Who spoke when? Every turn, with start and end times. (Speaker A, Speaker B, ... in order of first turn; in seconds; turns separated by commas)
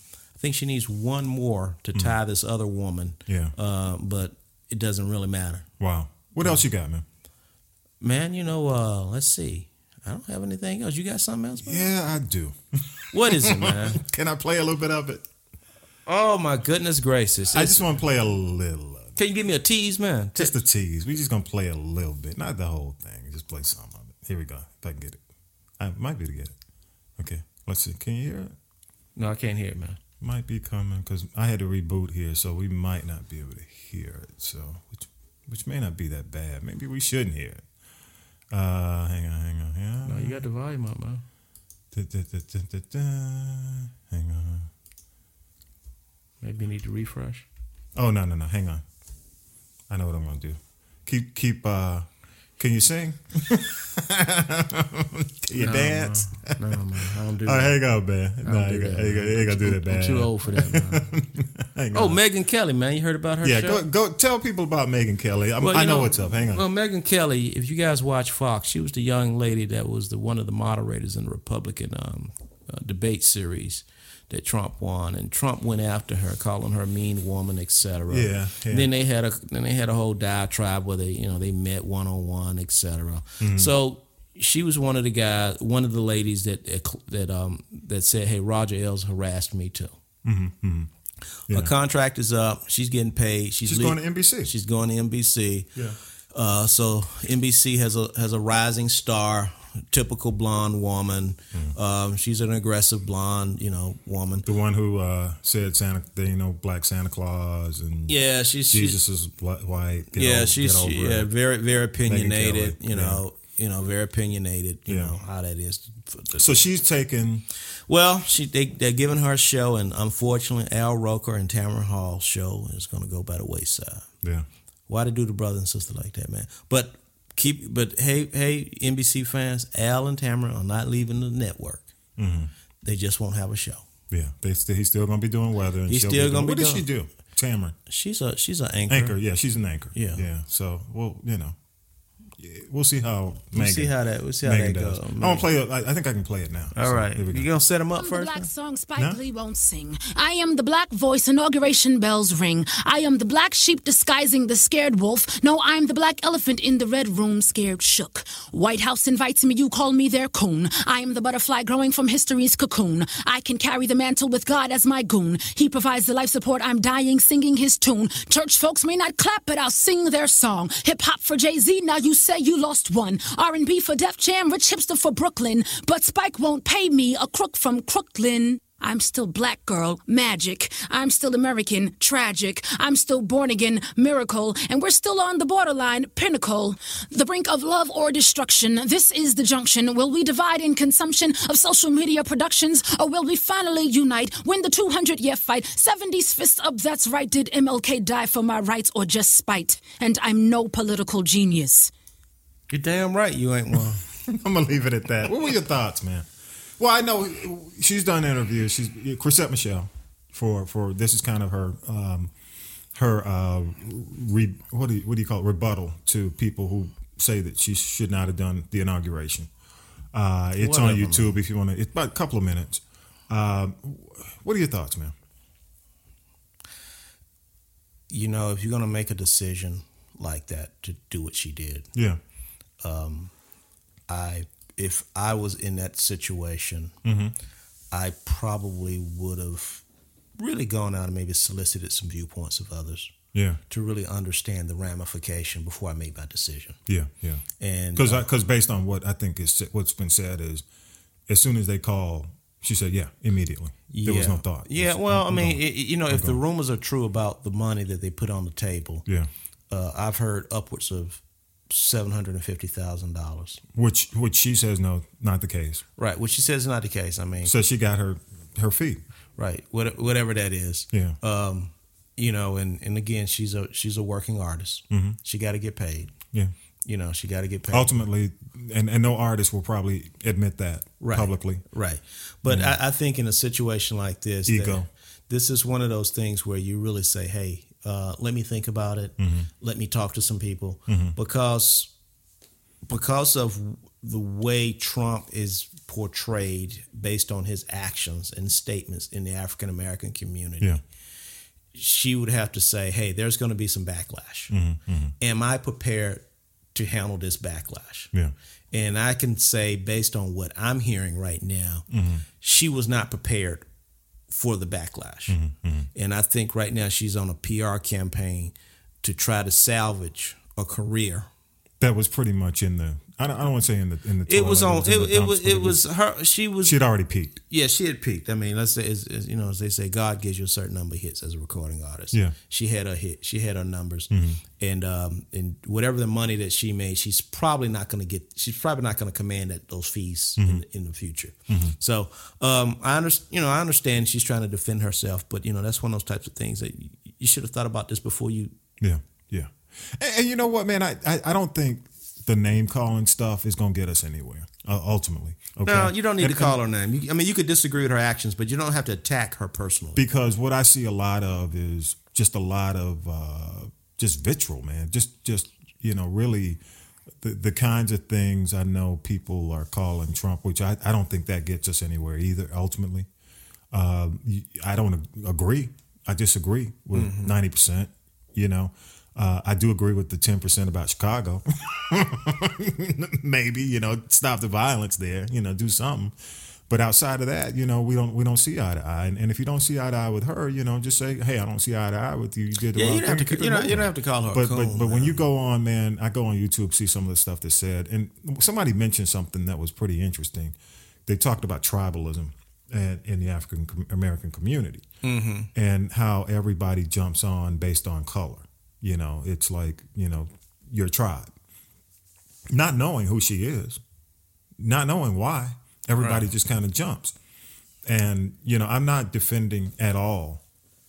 Speaker A: 0.4-5.7, Speaker B: 3.3-3.5, Speaker B: 5.8-7.0, Speaker A: 8.0-11.8, Speaker B: 11.6-15.2, Speaker A: 13.1-14.0, Speaker A: 16.1-17.9, Speaker B: 17.5-19.1, Speaker A: 19.1-20.6, Speaker B: 20.4-25.2, Speaker B: 25.8-26.5, Speaker B: 27.2-28.5, Speaker A: 29.1-30.0, Speaker B: 30.2-37.6, Speaker B: 38.5-40.4, Speaker A: 40.0-41.2, Speaker B: 41.9-44.7, Speaker A: 46.4-47.5, Speaker B: 47.9-48.8, Speaker B: 49.9-52.1, Speaker B: 52.6-56.6, Speaker A: 55.5-57.8, Speaker B: 57.4-62.2, Speaker A: 58.4-61.1, Speaker A: 61.9-63.8, Speaker B: 63.4-66.6, Speaker A: 65.6-89.9, Speaker B: 78.1-78.9, Speaker B: 83.4-83.7, Speaker B: 90.2-90.9, Speaker B: 91.5-91.7, Speaker A: 91.5-95.7, Speaker B: 93.6-94.5, Speaker A: 96.3-104.5, Speaker B: 104.4-111.3, Speaker A: 108.1-109.0, Speaker A: 110.1-116.6, Speaker B: 112.0-113.2, Speaker B: 114.9-115.2, Speaker B: 116.4-117.5, Speaker A: 117.9-124.1, Speaker A: 124.9-131.9, Speaker B: 132.2-132.5, Speaker A: 132.8-133.9, Speaker B: 134.1-137.8, Speaker A: 135.9-136.9, Speaker A: 137.9-139.2, Speaker B: 138.9-141.6, Speaker A: 139.9-140.2, Speaker B: 142.4-147.5, Speaker A: 143.5-145.5, Speaker A: 146.7-148.5, Speaker C: 147.9-201.9, Speaker A: 202.7-204.0, Speaker B: 204.2-206.3, Speaker B: 206.8-212.3, Speaker B: 212.9-219.5, Speaker B: 220.1-225.1, Speaker A: 220.6-221.3, Speaker A: 228.1-231.9, Speaker B: 231.9-232.2, Speaker A: 232.8-233.3, Speaker A: 234.1-236.9, Speaker B: 237.0-237.3, Speaker A: 237.9-239.8, Speaker A: 240.4-243.1, Speaker B: 243.3-243.6, Speaker A: 243.7-246.8, Speaker B: 246.9-250.6, Speaker A: 247.6-248.2, Speaker B: 251.3-256.4, Speaker A: 253.9-259.1, Speaker A: 259.7-263.6, Speaker B: 263.7-265.8, Speaker A: 266.0-267.5, Speaker B: 267.4-269.0, Speaker A: 269.4-276.1, Speaker B: 270.9-271.2, Speaker B: 274.9-275.2, Speaker A: 276.8-278.0, Speaker B: 277.7-281.6, Speaker A: 281.0-291.9, Speaker B: 282.5-282.8, Speaker B: 284.5-284.9, Speaker B: 289.2-289.5, Speaker B: 290.9-291.1, Speaker A: 292.9-300.7, Speaker A: 301.7-304.6, Speaker B: 304.5-305.1, Speaker A: 305.2-306.2, Speaker A: 306.7-308.1, Speaker A: 308.7-311.9, Speaker B: 311.9-312.2, Speaker A: 312.4-313.6, Speaker A: 314.3-315.4, Speaker B: 315.3-315.9, Speaker A: 315.9-321.3, Speaker B: 321.8-325.9, Speaker A: 324.3-326.8, Speaker B: 326.6-327.4, Speaker A: 327.5-348.5, Speaker B: 334.1-334.4, Speaker B: 340.4-340.6, Speaker B: 341.5-341.8, Speaker B: 348.8-356.6, Speaker A: 355.6-360.0, Speaker B: 359.9-366.6, Speaker B: 367.2-373.1, Speaker B: 373.7-386.1, Speaker A: 376.9-377.3, Speaker B: 386.7-404.9, Speaker A: 392.7-395.2, Speaker A: 405.0-405.5, Speaker B: 405.5-411.3, Speaker B: 412.5-413.8, Speaker B: 414.6-417.1, Speaker A: 416.0-416.2, Speaker B: 417.9-420.4